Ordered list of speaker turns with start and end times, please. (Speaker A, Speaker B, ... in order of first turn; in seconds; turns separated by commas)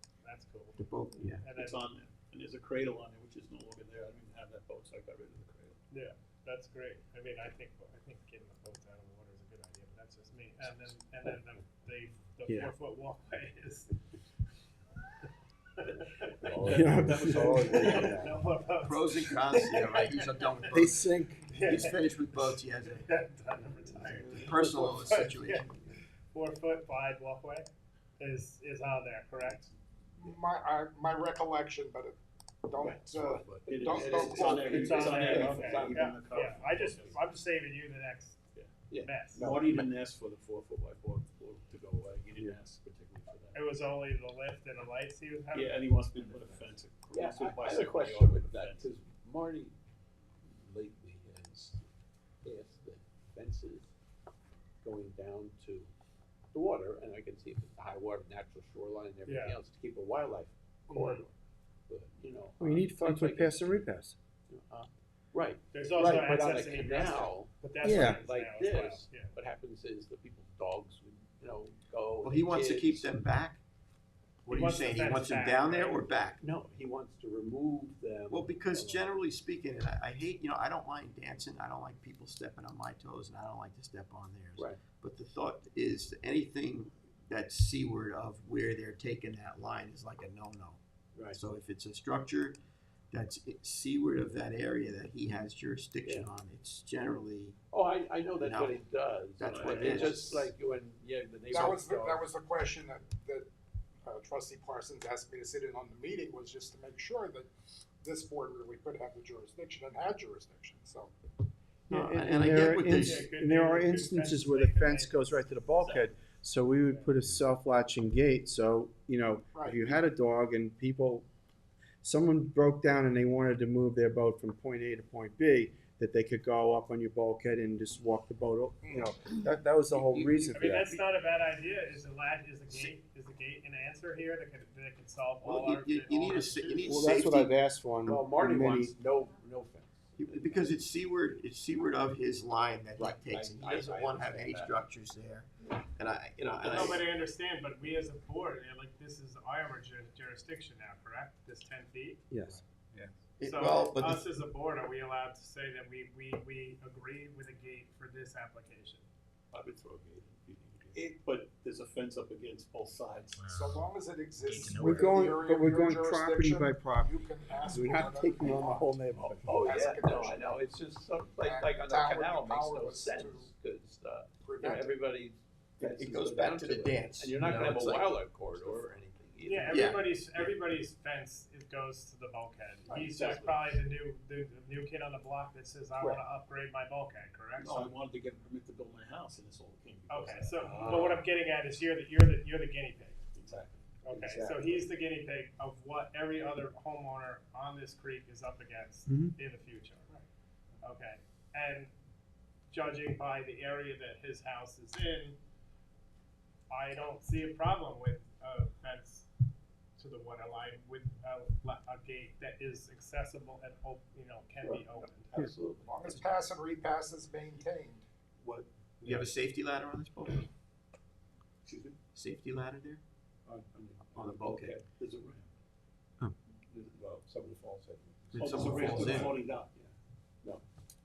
Speaker A: 0.2-1.8, Speaker B: 0.8-1.4, Speaker C: 1.6-5.8, Speaker A: 5.9-13.9, Speaker D: 12.5-12.7, Speaker A: 15.8-16.7, Speaker C: 16.4-18.2, Speaker D: 16.6-18.4, Speaker A: 17.7-20.5, Speaker B: 18.8-21.1, Speaker D: 20.7-21.6, Speaker A: 21.5-25.7, Speaker B: 21.6-23.1, Speaker B: 24.2-25.9, Speaker A: 26.3-27.7, Speaker A: 28.2-29.7, Speaker E: 30.2-32.1, Speaker E: 32.7-35.3, Speaker F: 32.8-36.1, Speaker C: 33.7-37.2, Speaker A: 34.8-38.4, Speaker C: 38.5-43.6, Speaker F: 38.9-39.9, Speaker A: 39.0-39.5, Speaker A: 43.5-45.9, Speaker C: 45.5-48.9, Speaker F: 46.6-49.8, Speaker F: 50.5-51.8, Speaker F: 52.4-53.9, Speaker F: 54.8-55.9, Speaker F: 56.5-61.4, Speaker A: 59.3-59.6, Speaker A: 60.9-61.2, Speaker F: 61.9-63.9, Speaker D: 62.6-64.2, Speaker F: 64.5-73.1, Speaker A: 65.7-69.3, Speaker D: 67.8-68.2, Speaker B: 72.2-73.6, Speaker B: 74.5-76.4, Speaker A: 74.5-76.1, Speaker F: 76.4-79.0, Speaker B: 78.3-90.8, Speaker B: 91.3-92.6, Speaker B: 93.1-97.6, Speaker F: 96.0-96.3, Speaker F: 97.7-102.3, Speaker B: 98.4-98.8, Speaker B: 99.4-100.5, Speaker C: 99.5-100.3, Speaker E: 101.5-103.5, Speaker E: 104.0-111.1, Speaker B: 111.9-113.3, Speaker D: 111.9-121.3, Speaker A: 112.8-115.5, Speaker C: 115.8-116.1, Speaker E: 119.5-120.0, Speaker D: 122.0-131.0, Speaker E: 128.9-129.1, Speaker F: 129.9-130.8, Speaker A: 130.6-137.2, Speaker B: 135.4-137.5, Speaker D: 136.8-138.9, Speaker F: 138.1-140.8, Speaker B: 140.2-147.1, Speaker F: 143.0-144.8, Speaker A: 146.6-152.3, Speaker D: 152.3-152.6, Speaker B: 153.4-154.2, Speaker A: 153.4-159.1, Speaker C: 159.5-163.6, Speaker E: 163.5-168.9, Speaker D: 164.8-169.8, Speaker F: 169.2-180.1, Speaker E: 169.5-170.5, Speaker E: 171.3-173.5, Speaker E: 174.4-174.8, Speaker B: 175.8-178.1, Speaker C: 177.4-177.8, Speaker A: 179.4-187.7, Speaker B: 179.7-180.5, Speaker F: 182.9-183.6, Speaker F: 186.0-186.2, Speaker C: 187.6-191.3, Speaker A: 190.1-193.2, Speaker F: 190.7-191.1, Speaker C: 193.3-193.8, Speaker A: 194.0-200.2, Speaker F: 194.1-194.8, Speaker D: 199.1-199.3, Speaker A: 200.8-201.9, Speaker A: 202.7-205.4, Speaker A: 206.7-209.3, Speaker A: 210.0-215.3, Speaker F: 214.6-216.2, Speaker E: 215.9-218.0, Speaker B: 219.0-220.5, Speaker C: 221.6-222.0, Speaker B: 222.1-223.0, Speaker C: 223.6-225.5, Speaker B: 224.2-224.8, Speaker F: 226.7-229.9, Speaker B: 228.3-229.4, Speaker C: 228.3-229.7